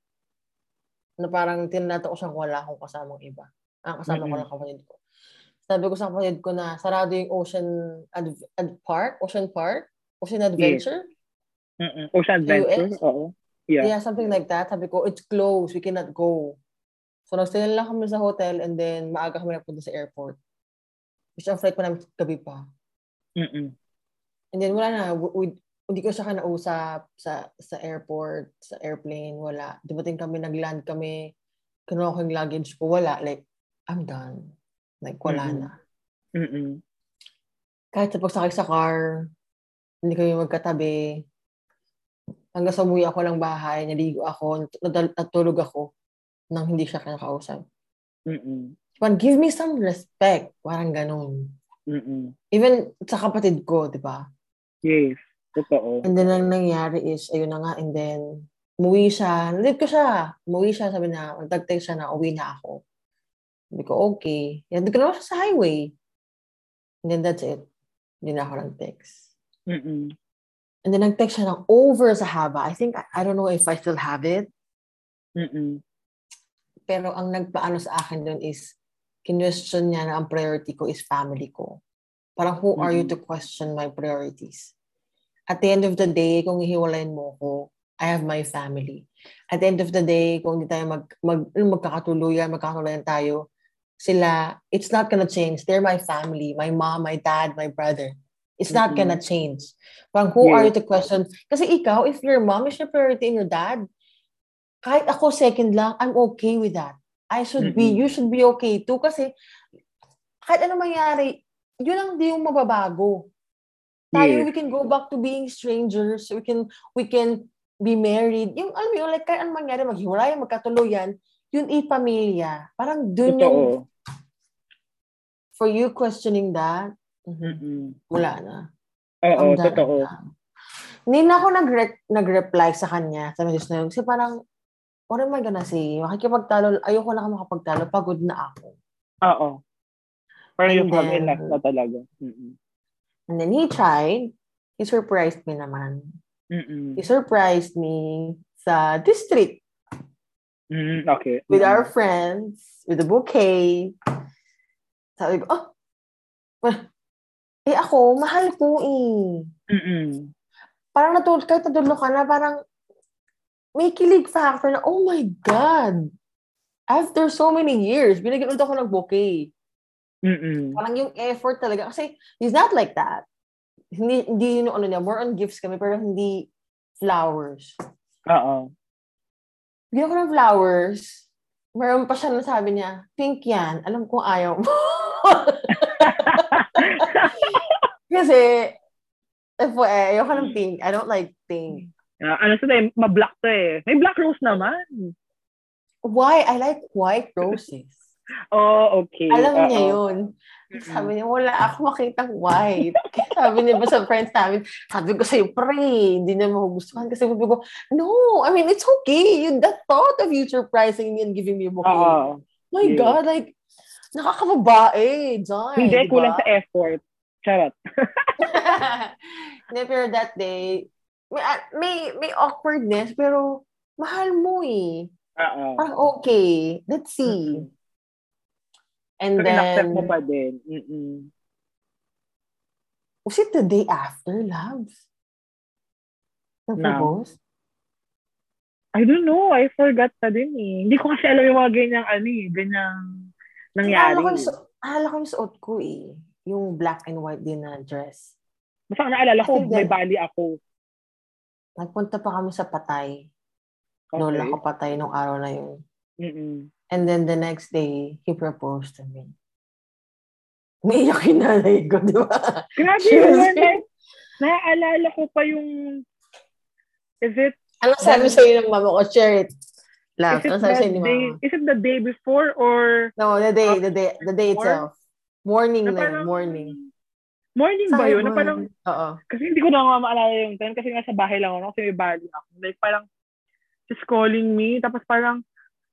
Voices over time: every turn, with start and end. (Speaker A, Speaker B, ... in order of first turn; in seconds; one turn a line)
Speaker A: 1.2-5.0
Speaker B: 4.1-4.4
Speaker A: 5.7-11.0
Speaker B: 10.6-10.8
Speaker B: 11.8-13.9
Speaker A: 12.4-12.9
Speaker A: 13.8-16.6
Speaker A: 17.3-20.4
Speaker A: 21.4-22.6
Speaker B: 23.4-23.7
Speaker A: 24.5-31.1
Speaker A: 31.9-34.4
Speaker A: 35.0-35.7
Speaker B: 35.3-35.7
Speaker B: 36.4-36.8
Speaker A: 37.9-39.0
Speaker A: 40.0-41.0
Speaker A: 42.5-45.9
Speaker A: 46.5-47.6
Speaker B: 48.3-48.7
Speaker A: 49.0-51.5
Speaker B: 51.9-52.3
Speaker A: 52.5-54.2
Speaker B: 54.8-56.1
Speaker A: 56.0-58.2
Speaker A: 58.8-62.8
Speaker A: 63.7-65.9
Speaker A: 67.0-67.7
Speaker A: 68.2-69.1
Speaker B: 69.7-70.1
Speaker A: 70.8-74.5
Speaker B: 75.4-75.8
Speaker A: 76.9-78.7
Speaker A: 79.2-81.8
Speaker A: 82.4-84.7
Speaker B: 82.8-83.2
Speaker A: 85.5-93.4
Speaker A: 94.0-103.8
Speaker B: 98.7-99.2
Speaker B: 100.4-100.7
Speaker A: 104.8-109.3
Speaker B: 107.6-108.0
Speaker A: 110.5-113.3
Speaker B: 114.1-114.5
Speaker A: 114.1-123.7
Speaker B: 123.3-123.8
Speaker A: 125.5-127.6
Speaker B: 127.4-128.0
Speaker A: 128.1-128.6
Speaker B: 129.3-130.1
Speaker A: 129.4-130.2
Speaker A: 131.1-134.3
Speaker A: 135.1-138.8
Speaker B: 139.2-139.6
Speaker B: 140.6-142.5
Speaker A: 140.7-141.5
Speaker A: 143.3-146.1
Speaker B: 146.5-147.0
Speaker A: 147.0-149.6
Speaker B: 150.7-151.9
Speaker A: 151.5-153.9
Speaker A: 155.2-155.7
Speaker A: 157.7-159.4
Speaker B: 159.7-160.3
Speaker A: 160.9-162.6
Speaker A: 163.8-166.1
Speaker A: 166.9-169.5
Speaker B: 170.2-170.8
Speaker A: 170.8-173.2
Speaker A: 173.9-176.5
Speaker A: 177.0-177.7
Speaker B: 178.3-178.7
Speaker A: 179.9-181.2
Speaker A: 181.8-186.4
Speaker B: 185.7-187.7
Speaker A: 188.1-188.7
Speaker A: 189.6-191.8
Speaker B: 191.7-195.1
Speaker A: 196.1-197.9
Speaker B: 198.5-200.0
Speaker A: 199.3-212.2
Speaker B: 200.7-201.1
Speaker B: 203.5-203.9
Speaker B: 211.8-213.2
Speaker A: 212.7-213.5
Speaker A: 214.1-216.4
Speaker B: 215.8-218.6
Speaker A: 218.4-225.1
Speaker B: 225.4-225.9
Speaker A: 225.8-227.7
Speaker B: 227.2-227.7
Speaker A: 229.2-230.1
Speaker B: 229.4-231.3
Speaker A: 233.2-235.0
Speaker A: 236.7-237.3
Speaker B: 236.8-237.1
Speaker B: 238.9-242.9
Speaker B: 243.8-244.5
Speaker A: 243.8-248.3
Speaker B: 248.9-250.6
Speaker A: 249.4-249.9
Speaker A: 251.8-253.2
Speaker B: 254.1-254.6
Speaker A: 254.2-255.8
Speaker B: 256.2-256.7
Speaker A: 256.9-259.3
Speaker A: 260.8-263.7
Speaker B: 262.8-263.8
Speaker B: 264.4-266.0
Speaker B: 267.2-268.4
Speaker A: 267.8-269.5
Speaker A: 270.2-271.4
Speaker B: 270.3-273.1
Speaker A: 273.2-274.9
Speaker B: 273.6-274.9
Speaker A: 275.4-276.8
Speaker B: 275.9-276.9
Speaker B: 277.6-278.7
Speaker A: 277.9-279.2
Speaker B: 279.3-283.1
Speaker B: 283.9-285.4